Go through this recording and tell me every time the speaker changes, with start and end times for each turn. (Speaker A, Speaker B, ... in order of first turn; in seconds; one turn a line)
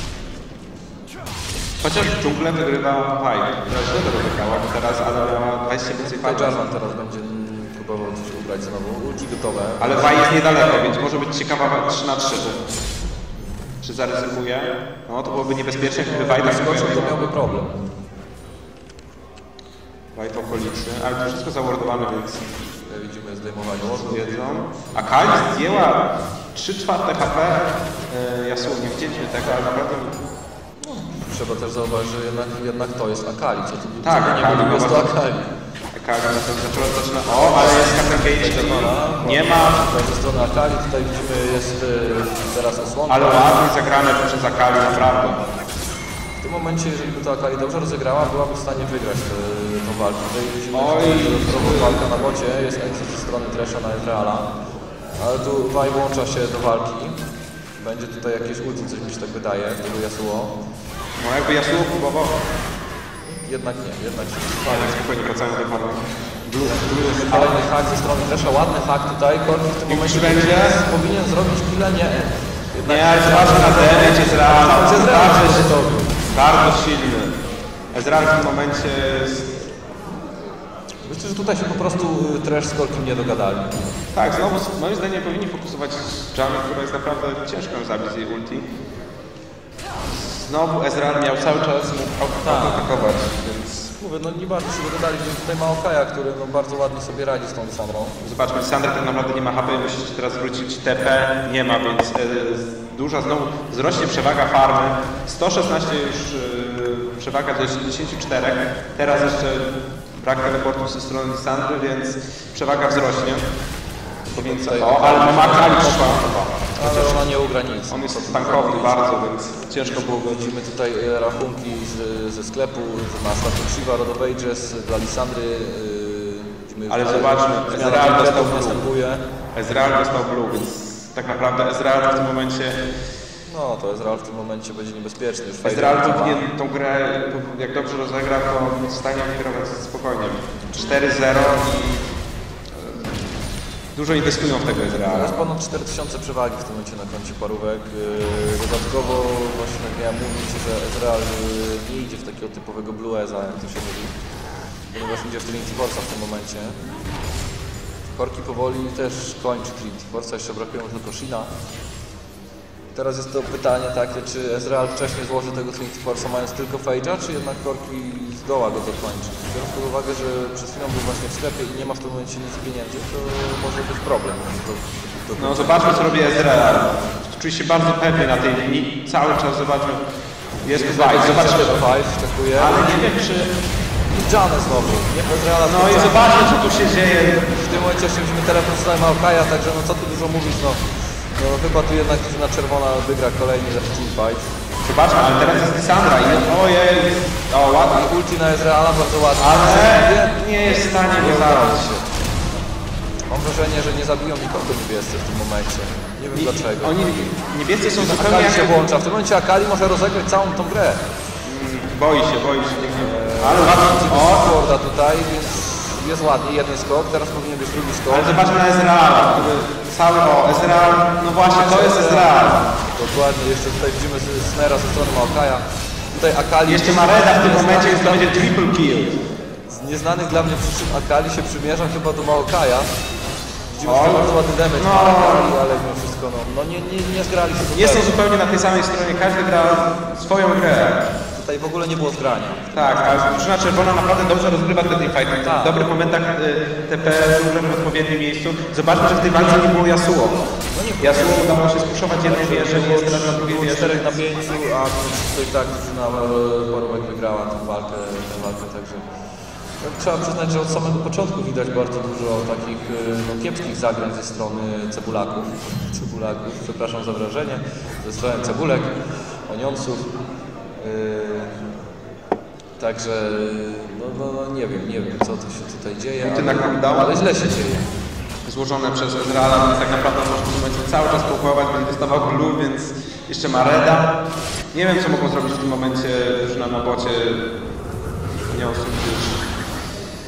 Speaker A: 1.8-6.6
Speaker B: 6.0-10.2
Speaker A: 9.8-12.7
Speaker A: 13.8-17.2
Speaker B: 15.9-17.8
Speaker A: 20.1-22.4
Speaker B: 22.9-24.4
Speaker A: 23.9-30.2
Speaker B: 30.8-35.5
Speaker A: 34.0-35.1
Speaker A: 35.9-39.8
Speaker B: 37.2-43.6
Speaker A: 43.1-45.4
Speaker B: 46.4-54.5
Speaker A: 50.7-52.2
Speaker B: 55.2-57.2
Speaker B: 57.8-60.6
Speaker A: 61.2-62.4
Speaker B: 63.3-64.9
Speaker A: 64.6-67.6
Speaker B: 66.6-76.2
Speaker A: 69.9-70.8
Speaker A: 72.8-75.7
Speaker A: 76.3-77.4
Speaker A: 77.9-79.5
Speaker B: 81.0-84.0
Speaker A: 84.1-88.7
Speaker A: 90.1-93.9
Speaker B: 92.4-93.1
Speaker B: 94.0-98.2
Speaker A: 98.2-113.4
Speaker A: 114.3-117.3
Speaker B: 114.3-116.2
Speaker B: 116.7-119.0
Speaker A: 117.9-120.3
Speaker B: 119.8-129.2
Speaker A: 126.9-128.8
Speaker A: 129.5-132.8
Speaker B: 133.5-136.4
Speaker A: 135.6-142.1
Speaker A: 142.7-143.3
Speaker A: 143.9-145.4
Speaker B: 145.1-154.1
Speaker B: 154.9-156.8
Speaker B: 158.1-161.5
Speaker B: 162.9-176.1
Speaker A: 175.4-180.0
Speaker A: 180.6-181.8
Speaker B: 180.7-183.0
Speaker A: 182.5-183.5
Speaker B: 184.1-186.4
Speaker A: 185.7-187.5
Speaker B: 187.5-190.8
Speaker B: 191.4-194.5
Speaker A: 194.8-198.1
Speaker B: 197.9-200.4
Speaker A: 199.4-201.9
Speaker B: 201.2-202.1
Speaker B: 203.3-207.1
Speaker A: 206.3-208.7
Speaker B: 208.0-211.0
Speaker A: 211.4-214.5
Speaker B: 213.2-218.4
Speaker A: 218.1-222.7
Speaker B: 221.5-228.5
Speaker A: 226.7-229.2
Speaker B: 229.7-232.9
Speaker B: 233.7-238.1
Speaker A: 233.8-235.5
Speaker A: 237.7-241.1
Speaker B: 241.3-243.4
Speaker A: 242.7-250.4
Speaker B: 245.4-245.9
Speaker B: 250.7-259.0
Speaker A: 251.0-254.2
Speaker B: 259.8-270.2
Speaker B: 270.8-271.6
Speaker B: 272.8-277.9
Speaker A: 276.2-277.1
Speaker A: 278.4-284.2
Speaker A: 284.7-287.7
Speaker A: 288.5-289.4